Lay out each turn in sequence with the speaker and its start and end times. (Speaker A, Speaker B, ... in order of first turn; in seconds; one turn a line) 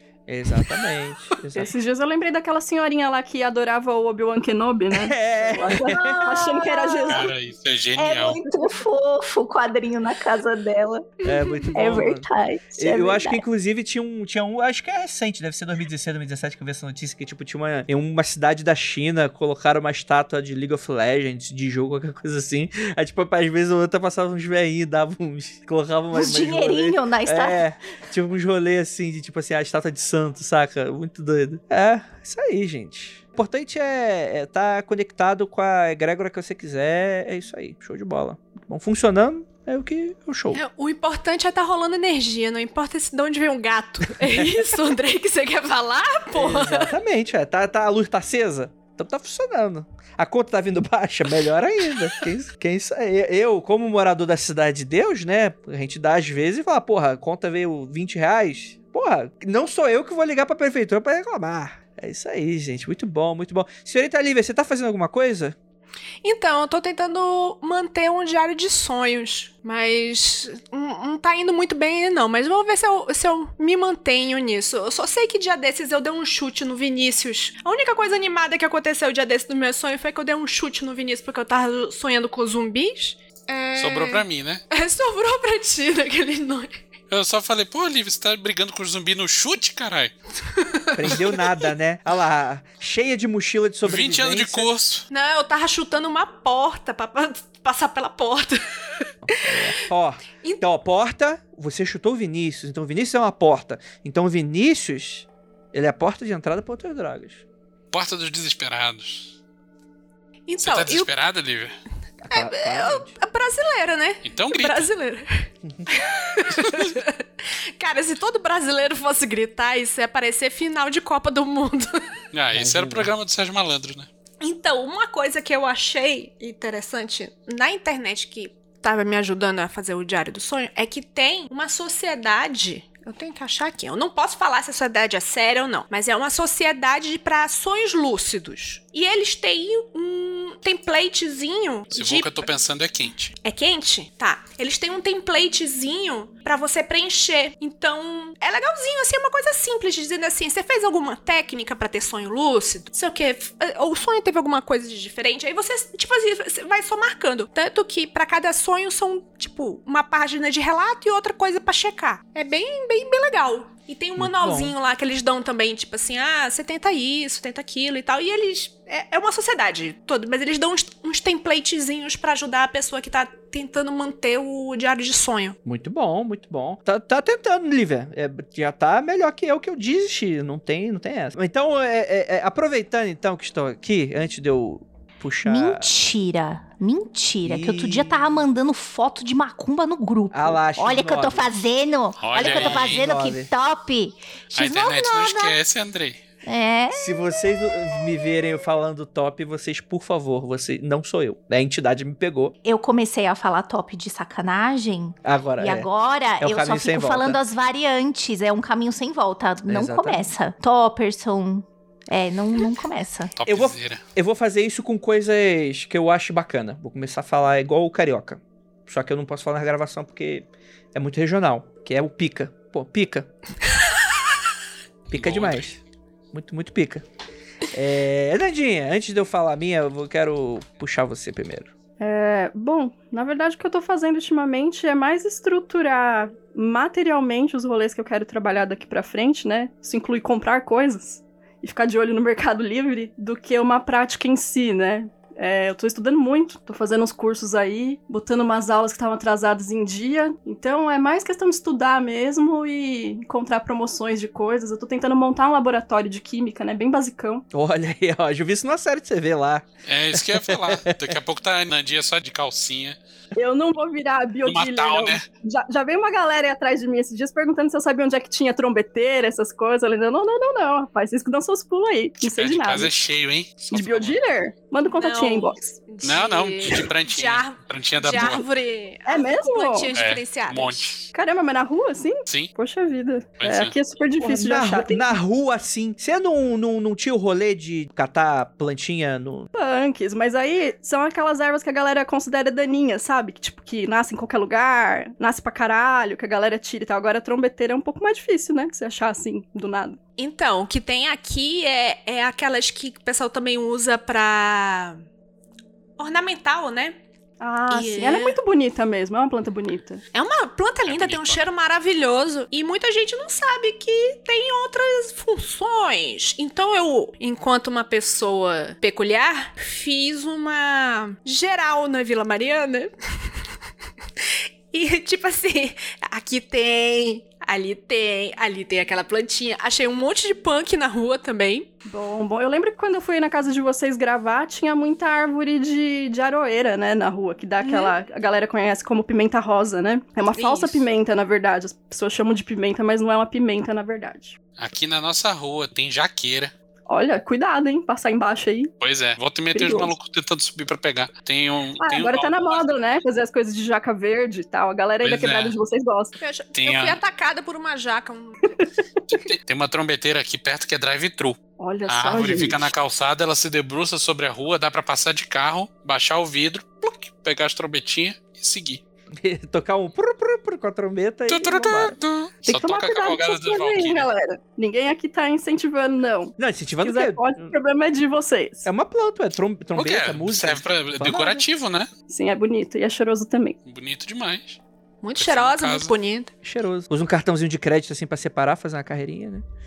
Speaker A: 0.3-1.7
Speaker B: 1.5-7.3
Speaker A: 4.9-6.2
Speaker C: 5.8-7.2
Speaker D: 7.1-8.4
Speaker C: 8.0-11.1
Speaker A: 11.2-40.6
Speaker C: 11.7-13.4
Speaker C: 26.1-27.6
Speaker E: 40.5-46.9
Speaker A: 44.3-44.5
Speaker A: 46.3-65.6
Speaker E: 66.2-86.8
Speaker D: 83.8-84.6
Speaker D: 87.1-90.1
Speaker E: 90.6-90.9
Speaker A: 91.0-94.7
Speaker D: 93.8-95.0
Speaker E: 95.1-99.7
Speaker A: 99.2-107.4
Speaker D: 107.9-109.3
Speaker E: 110.5-111.1
Speaker D: 110.6-111.8
Speaker A: 112.2-113.1
Speaker E: 112.3-122.1
Speaker D: 114.2-114.9
Speaker A: 115.6-115.9
Speaker D: 122.3-124.1
Speaker A: 122.5-123.1
Speaker E: 124.4-142.5
Speaker D: 141.9-143.3
Speaker E: 143.4-175.6
Speaker A: 164.2-164.7
Speaker A: 175.6-185.9
Speaker C: 185.4-195.6
Speaker A: 187.4-188.4
Speaker A: 190.3-191.5
Speaker D: 192.2-193.0
Speaker A: 192.3-193.5
Speaker D: 194.5-196.2
Speaker C: 196.4-197.4
Speaker A: 196.9-202.5
Speaker C: 202.6-213.3
Speaker A: 205.2-205.9
Speaker A: 206.4-207.4
Speaker A: 209.7-210.3
Speaker D: 213.3-214.0
Speaker A: 213.4-223.3
Speaker A: 225.1-225.8
Speaker D: 225.1-225.7
Speaker A: 226.3-227.0
Speaker A: 227.7-231.7
Speaker B: 232.0-257.4
Speaker A: 257.5-261.1
Speaker D: 259.9-263.0
Speaker B: 263.3-273.0
Speaker D: 264.4-265.2
Speaker D: 272.2-274.2
Speaker B: 273.7-275.8
Speaker E: 274.9-281.0
Speaker D: 276.0-278.4
Speaker B: 278.1-278.4
Speaker B: 279.0-279.9
Speaker D: 279.9-281.0
Speaker B: 281.1-285.1
Speaker D: 283.4-283.7
Speaker A: 284.2-289.5
Speaker B: 289.5-300.0
Speaker E: 300.2-305.0
Speaker E: 306.0-307.0
Speaker B: 307.4-310.0
Speaker E: 307.7-308.4
Speaker E: 310.1-323.3
Speaker D: 310.9-311.4
Speaker E: 324.2-331.7
Speaker B: 331.9-344.4
Speaker E: 337.6-337.9
Speaker E: 340.3-340.9
Speaker D: 344.6-346.5
Speaker B: 346.9-348.7
Speaker D: 348.8-352.7
Speaker B: 349.5-349.9
Speaker B: 351.8-356.1
Speaker D: 355.0-355.6
Speaker E: 356.2-358.5
Speaker D: 356.5-357.0
Speaker D: 359.1-368.8
Speaker B: 361.6-362.7
Speaker A: 369.2-371.9
Speaker D: 371.3-374.1
Speaker B: 372.4-378.7
Speaker A: 376.4-377.5
Speaker A: 378.6-381.4
Speaker D: 379.8-381.9
Speaker B: 382.1-383.6
Speaker D: 383.6-384.6
Speaker E: 385.0-386.3
Speaker D: 385.1-385.9
Speaker A: 386.4-389.4